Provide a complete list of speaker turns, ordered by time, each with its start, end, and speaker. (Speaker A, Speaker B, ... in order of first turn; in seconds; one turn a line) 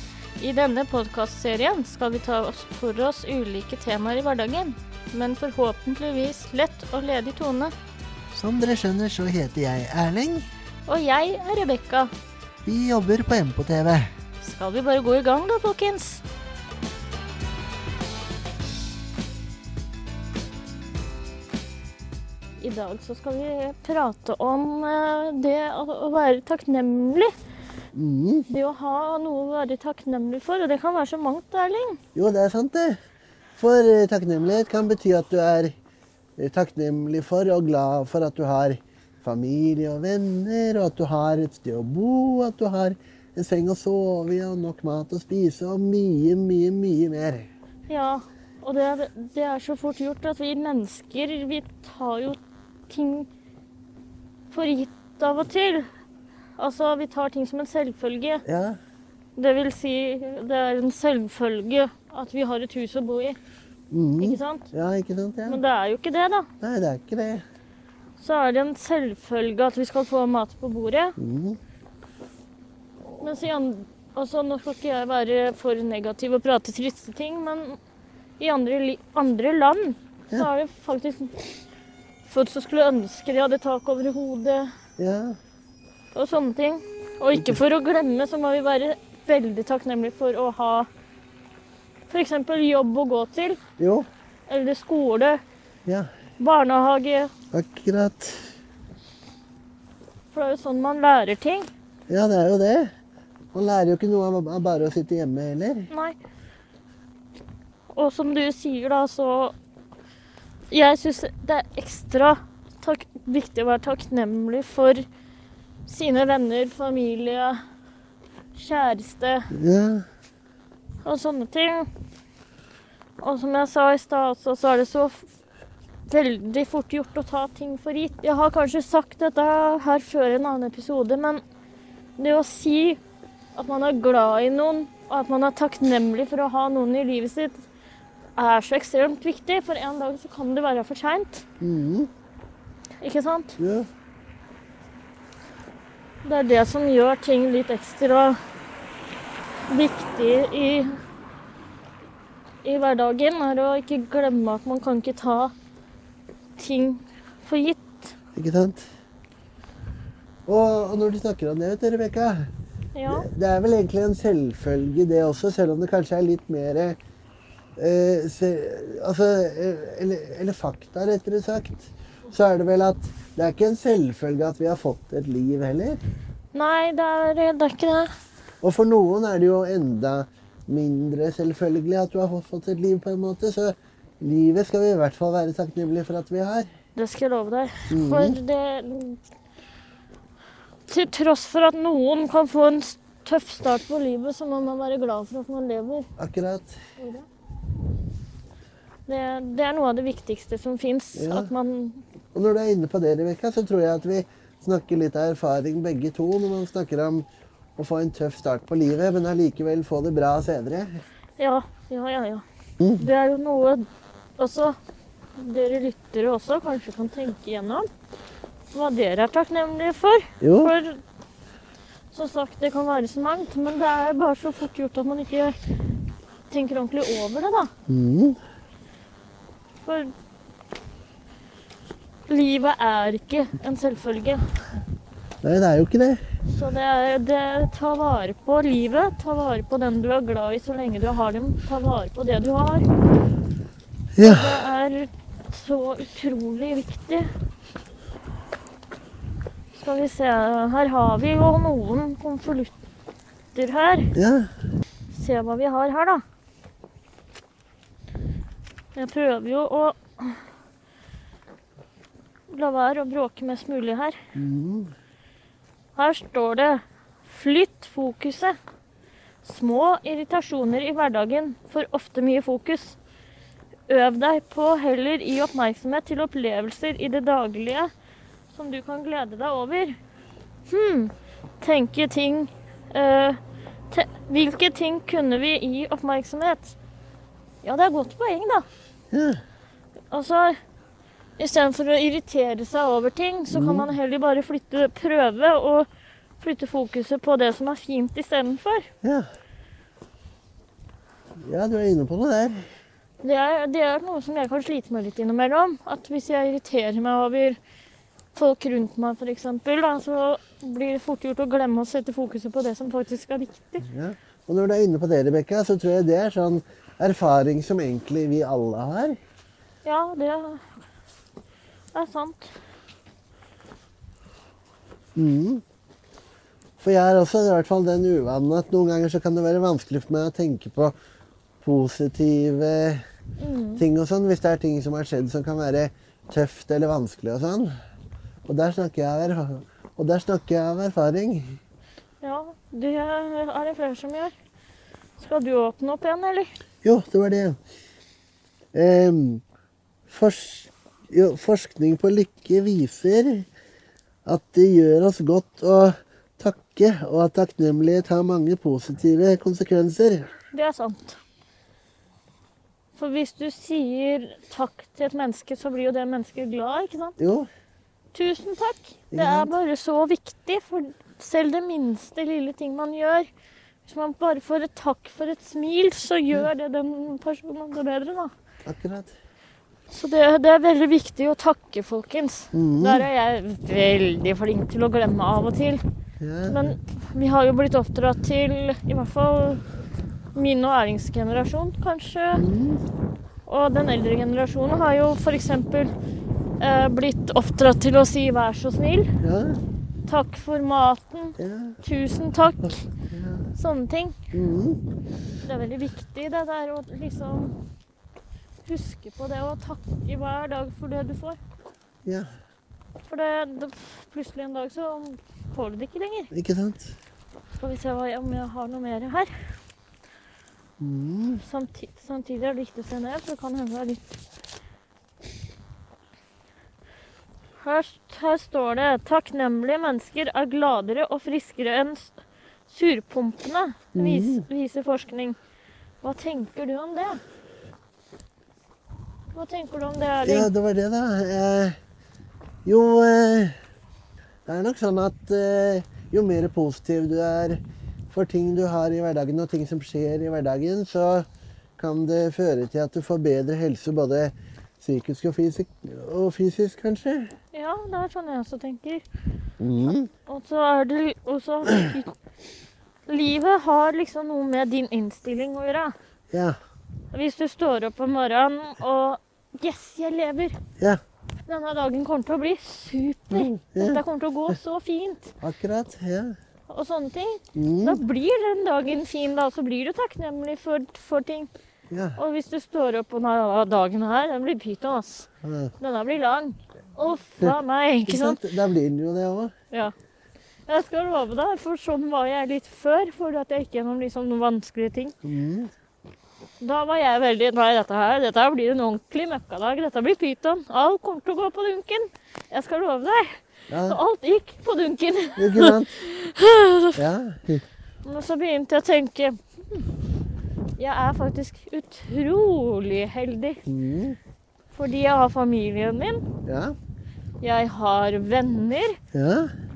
Speaker A: 0.4-7.7
Speaker B: 8.3-10.5
Speaker A: 10.9-12.1
Speaker B: 12.7-14.1
Speaker A: 14.4-16.2
Speaker A: 22.6-27.3
Speaker B: 27.9-28.5
Speaker A: 28.5-32.0
Speaker B: 32.1-33.0
Speaker B: 33.6-35.7
Speaker B: 36.4-47.5
Speaker A: 47.9-53.3
Speaker A: 54.5-55.9
Speaker A: 56.6-58.4
Speaker B: 58.5-58.8
Speaker A: 59.4-63.4
Speaker B: 63.9-65.6
Speaker A: 64.2-64.7
Speaker A: 65.5-66.5
Speaker B: 66.6-67.5
Speaker A: 68.2-71.2
Speaker B: 71.2-71.6
Speaker A: 73.2-77.8
Speaker A: 78.4-81.4
Speaker A: 82.3-84.7
Speaker B: 85.0-85.4
Speaker A: 86.1-90.9
Speaker B: 87.3-87.6
Speaker A: 92.1-93.6
Speaker B: 93.8-94.1
Speaker A: 94.5-95.4
Speaker A: 96.4-97.3
Speaker B: 97.5-98.5
Speaker A: 100.3-101.7
Speaker B: 102.1-102.9
Speaker B: 103.5-105.9
Speaker A: 105.9-106.2
Speaker A: 107.9-109.5
Speaker A: 110.7-115.0
Speaker A: 115.9-117.6
Speaker A: 118.5-119.5
Speaker B: 119.5-120.0
Speaker A: 121.0-121.9
Speaker A: 123.2-125.3
Speaker A: 126.1-131.4
Speaker A: 132.2-133.0
Speaker A: 133.6-137.6
Speaker A: 138.4-141.4
Speaker B: 141.6-142.1
Speaker A: 143.0-143.6
Speaker B: 143.6-143.9
Speaker A: 146.2-148.4
Speaker A: 149.7-151.0
Speaker A: 152.6-155.5
Speaker A: 156.6-158.1
Speaker B: 158.3-158.9
Speaker B: 160.5-162.5
Speaker A: 162.9-163.3
Speaker B: 163.1-167.0
Speaker B: 167.8-176.0
Speaker A: 176.5-178.1
Speaker B: 178.6-186.7
Speaker A: 186.9-189.2
Speaker B: 187.9-188.4
Speaker A: 190.9-196.1
Speaker B: 196.2-196.8
Speaker A: 197.0-197.3
Speaker A: 199.1-202.0
Speaker B: 201.2-201.5
Speaker B: 202.3-211.0
Speaker A: 211.4-212.4
Speaker B: 212.8-213.1
Speaker A: 213.0-213.8
Speaker A: 214.4-214.8
Speaker A: 215.4-217.9
Speaker A: 218.7-221.0
Speaker B: 220.4-220.7
Speaker A: 222.1-225.6
Speaker A: 226.5-227.7
Speaker B: 227.9-228.4
Speaker A: 229.8-230.1
Speaker A: 232.3-234.4
Speaker B: 235.4-236.2
Speaker A: 236.5-242.9
Speaker B: 244.2-244.6
Speaker A: 244.2-247.3
Speaker A: 249.8-252.7
Speaker A: 253.6-254.1
Speaker B: 254.2-254.5
Speaker A: 255.1-256.2
Speaker A: 258.9-260.4
Speaker A: 262.5-264.2
Speaker B: 264.4-264.9
Speaker A: 266.0-268.6
Speaker A: 269.4-273.0
Speaker A: 273.9-277.9
Speaker A: 278.5-280.0
Speaker A: 280.7-283.4
Speaker A: 283.9-286.8
Speaker A: 287.6-288.7
Speaker B: 289.1-289.4
Speaker A: 290.1-290.6
Speaker A: 291.4-295.9
Speaker B: 293.5-293.9
Speaker A: 296.4-298.9
Speaker B: 301.4-302.7
Speaker A: 303.2-307.6
Speaker A: 308.3-313.9
Speaker B: 313.9-319.2
Speaker A: 319.8-320.8
Speaker A: 321.9-322.5
Speaker B: 325.2-325.6
Speaker B: 326.8-330.9
Speaker B: 331.6-333.0
Speaker A: 333.4-333.8
Speaker B: 333.8-337.7
Speaker B: 338.4-341.6
Speaker A: 342.2-344.3
Speaker A: 345.2-346.5
Speaker B: 346.8-347.6
Speaker B: 348.7-349.4
Speaker B: 350.1-353.5
Speaker B: 354.2-360.3
Speaker A: 360.5-361.2
Speaker A: 363.0-367.2
Speaker B: 367.2-367.5
Speaker A: 368.1-373.3
Speaker B: 369.1-369.5
Speaker A: 373.9-378.3
Speaker B: 378.7-379.1
Speaker A: 379.9-385.8
Speaker B: 382.5-383.1
Speaker B: 386.2-386.8
Speaker A: 386.5-389.6
Speaker A: 390.3-392.4
Speaker B: 392.3-392.8
Speaker A: 393.5-395.9
Speaker A: 396.6-399.1
Speaker B: 399.2-399.6
Speaker A: 400.1-402.9
Speaker B: 401.4-401.8
Speaker B: 403.1-403.5
Speaker A: 403.6-404.2
Speaker B: 404.3-404.8
Speaker A: 405.4-407.5
Speaker A: 408.6-411.4
Speaker B: 412.1-412.3
Speaker A: 413.1-416.3
Speaker B: 416.3-417.0
Speaker A: 417.6-419.3
Speaker B: 420.8-421.4
Speaker A: 421.4-424.0
Speaker A: 427.6-432.1
Speaker A: 432.7-435.4
Speaker B: 433.9-434.4
Speaker A: 436.0-437.2
Speaker A: 439.3-440.5
Speaker B: 440.2-441.8
Speaker B: 442.6-443.6
Speaker B: 444.5-451.2
Speaker B: 451.8-457.3
Speaker A: 457.5-459.0
Speaker B: 459.6-460.1
Speaker A: 460.3-462.1
Speaker A: 463.1-465.9
Speaker B: 466.3-466.6
Speaker A: 467.1-470.6
Speaker A: 471.5-475.3
Speaker B: 473.3-474.0
Speaker B: 475.4-476.4
Speaker A: 476.7-481.5
Speaker B: 477.6-478.0
Speaker B: 481.9-482.2
Speaker A: 482.2-485.3
Speaker B: 485.4-485.7
Speaker A: 485.8-488.4
Speaker B: 487.4-489.5
Speaker A: 490.7-495.1
Speaker B: 495.2-495.7
Speaker A: 496.6-507.0
Speaker B: 503.7-504.0
Speaker B: 505.4-506.1
Speaker B: 506.9-507.6
Speaker A: 508.0-509.8
Speaker A: 510.8-513.6
Speaker B: 513.7-514.2
Speaker A: 514.7-516.2
Speaker B: 516.5-516.8
Speaker A: 517.4-519.0
Speaker B: 519.1-519.5